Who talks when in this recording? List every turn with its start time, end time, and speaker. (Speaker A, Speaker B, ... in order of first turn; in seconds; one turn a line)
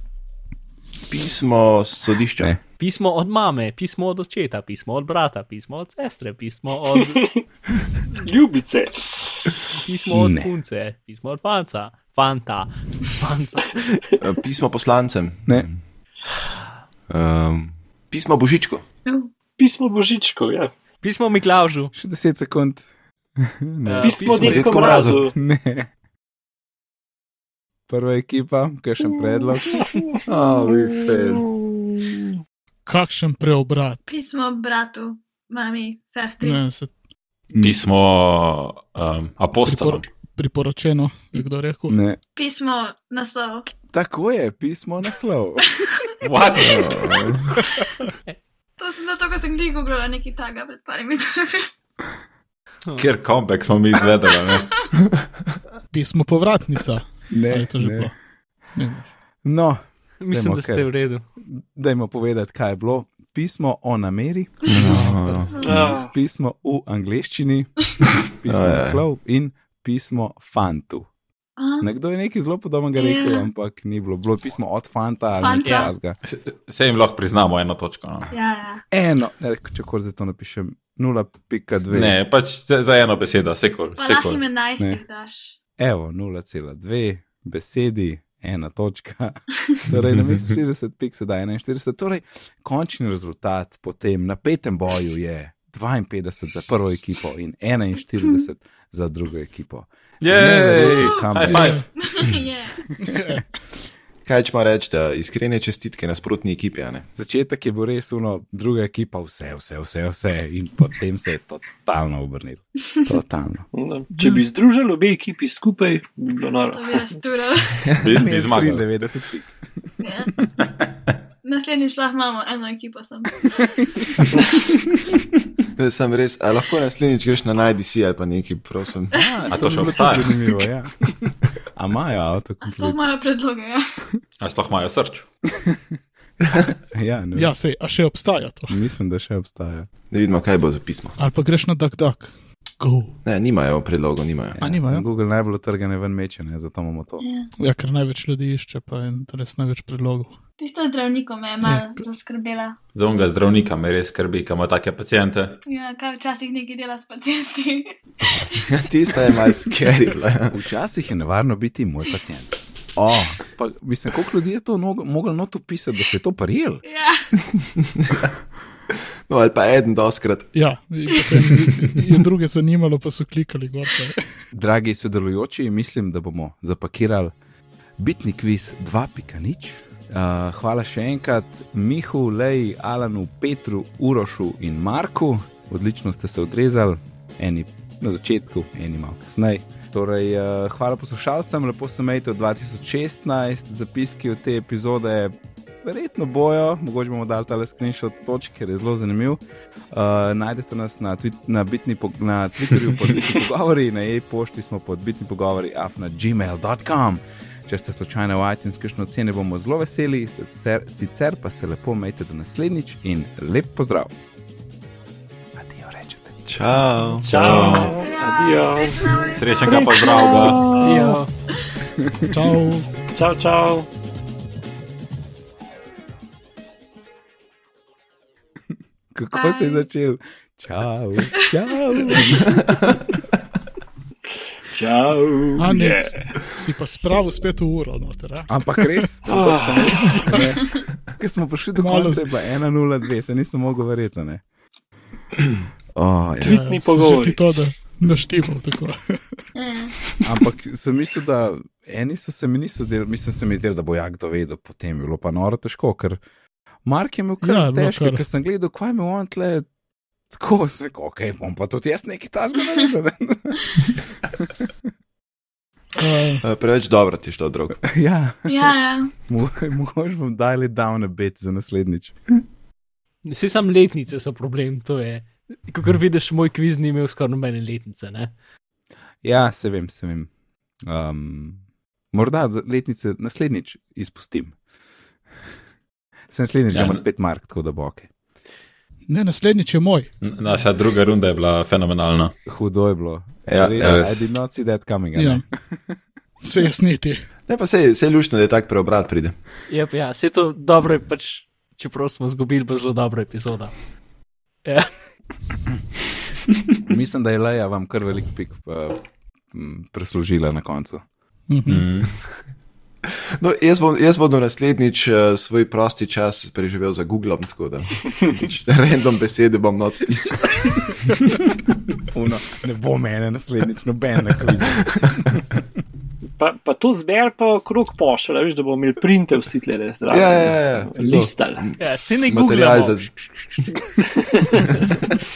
Speaker A: 1.1-2.5
Speaker B: 2.8-7.2
Speaker C: 7.0-7.4
Speaker C: 8.1-9.5
Speaker B: 9.7-14.0
Speaker D: 10.1-10.5
Speaker A: 14.2-15.8
Speaker A: 17.1-18.8
Speaker E: 19.1-19.3
Speaker C: 19.6-20.7
Speaker B: 21.0-21.9
Speaker D: 21.9-22.9
Speaker D: 23.4-24.4
Speaker B: 23.9-25.1
Speaker C: 24.0-25.4
Speaker A: 24.2-25.2
Speaker D: 25.3-25.9
Speaker D: 27.9-30.0
Speaker C: 29.6-32.2
Speaker A: 30.3-31.5
Speaker F: 32.9-34.0
Speaker E: 34.1-36.6
Speaker F: 36.4-36.9
Speaker D: 37.5-37.8
Speaker G: 37.6-40.0
Speaker F: 39.6-42.0
Speaker D: 41.9-42.2
Speaker E: 42.4-43.7
Speaker D: 43.9-45.7
Speaker G: 46.2-47.4
Speaker A: 46.6-47.5
Speaker E: 48.8-51.7
Speaker G: 53.0-54.8
Speaker F: 55.9-58.1
Speaker D: 57.3-58.1
Speaker F: 58.7-59.1
Speaker D: 59.4-60.9
Speaker B: 60.2-61.2
Speaker D: 61.5-67.9
Speaker A: 64.6-65.9
Speaker F: 64.8-65.2
Speaker C: 65.6-66.1
Speaker D: 68.4-71.1
Speaker A: 68.5-69.0
Speaker E: 71.6-71.9
Speaker D: 71.8-76.2
Speaker E: 73.0-73.5
Speaker E: 75.4-75.9
Speaker G: 76.2-78.3
Speaker E: 78.3-78.8
Speaker D: 78.9-82.2
Speaker G: 81.9-84.4
Speaker E: 84.0-85.5
Speaker D: 85.8-101.8
Speaker G: 100.2-101.9
Speaker E: 100.8-102.8
Speaker F: 101.5-101.8
Speaker F: 103.0-103.4
Speaker A: 104.2-107.0
Speaker D: 107.2-113.7
Speaker C: 113.7-117.2
Speaker E: 116.7-117.9
Speaker G: 118.0-118.9
Speaker D: 118.1-119.6
Speaker E: 120.0-120.3
Speaker G: 120.6-121.1
Speaker E: 121.4-123.8
Speaker A: 125.7-129.2
Speaker D: 129.1-131.0
Speaker G: 129.5-130.4
Speaker D: 131.7-133.0
Speaker E: 132.6-134.0
Speaker G: 134.4-135.2
Speaker D: 135.5-135.8
Speaker D: 136.9-137.5
Speaker F: 137.4-138.8
Speaker D: 138.7-139.9
Speaker A: 140.1-141.2
Speaker F: 141.2-143.1
Speaker A: 143.2-144.6
Speaker D: 144.6-147.2
Speaker F: 144.6-145.1
Speaker E: 147.2-147.5
Speaker F: 147.6-150.4
Speaker E: 150.6-152.8
Speaker F: 151.6-152.0
Speaker G: 152.9-155.6
Speaker E: 155.7-157.9
Speaker A: 158.7-160.6
Speaker D: 160.5-166.8
Speaker E: 166.8-167.3
Speaker A: 167.9-168.3
Speaker A: 169.3-170.5
Speaker F: 170.5-174.2
Speaker D: 174.5-177.3
Speaker D: 178.0-199.4
Speaker D: 199.9-214.1
Speaker D: 215.6-216.4
Speaker A: 216.5-217.8
Speaker C: 217.2-221.2
Speaker G: 217.3-217.9
Speaker E: 217.8-221.1
Speaker G: 219.3-220.8
Speaker B: 220.8-221.3
Speaker D: 222.0-222.4
Speaker F: 222.3-222.9
Speaker C: 223.1-223.9
Speaker D: 229.1-232.6
Speaker E: 229.4-229.8
Speaker C: 234.7-236.3
Speaker F: 235.6-239.1
Speaker D: 238.5-244.4
Speaker C: 239.2-240.4
Speaker F: 239.9-240.4
Speaker F: 241.8-242.3
Speaker D: 245.9-246.6
Speaker F: 246.4-249.4
Speaker C: 246.4-247.4
Speaker E: 249.6-249.9
Speaker D: 250.2-256.2
Speaker D: 256.8-259.7
Speaker F: 257.4-258.2
Speaker D: 260.3-263.8
Speaker F: 266.0-266.4
Speaker A: 266.4-267.8
Speaker D: 267.9-272.1
Speaker E: 268.5-269.1
Speaker B: 273.2-278.3
Speaker D: 279.2-280.3
Speaker D: 280.9-281.6
Speaker D: 282.1-284.6
Speaker D: 286.3-288.1
Speaker G: 286.7-287.0
Speaker F: 289.1-290.1
Speaker G: 290.2-292.3
Speaker D: 292.4-296.0
Speaker A: 293.4-294.1
Speaker G: 293.8-294.3
Speaker F: 295.1-295.4
Speaker F: 296.4-297.2
Speaker A: 297.5-299.4
Speaker B: 299.7-303.7
Speaker B: 304.6-304.9
Speaker D: 306.9-311.0
Speaker F: 311.5-311.9
Speaker G: 311.7-312.1
Speaker A: 313.4-320.8
Speaker D: 322.1-325.4
Speaker C: 326.4-331.7
Speaker A: 330.1-333.7
Speaker B: 331.8-333.1
Speaker C: 334.3-334.8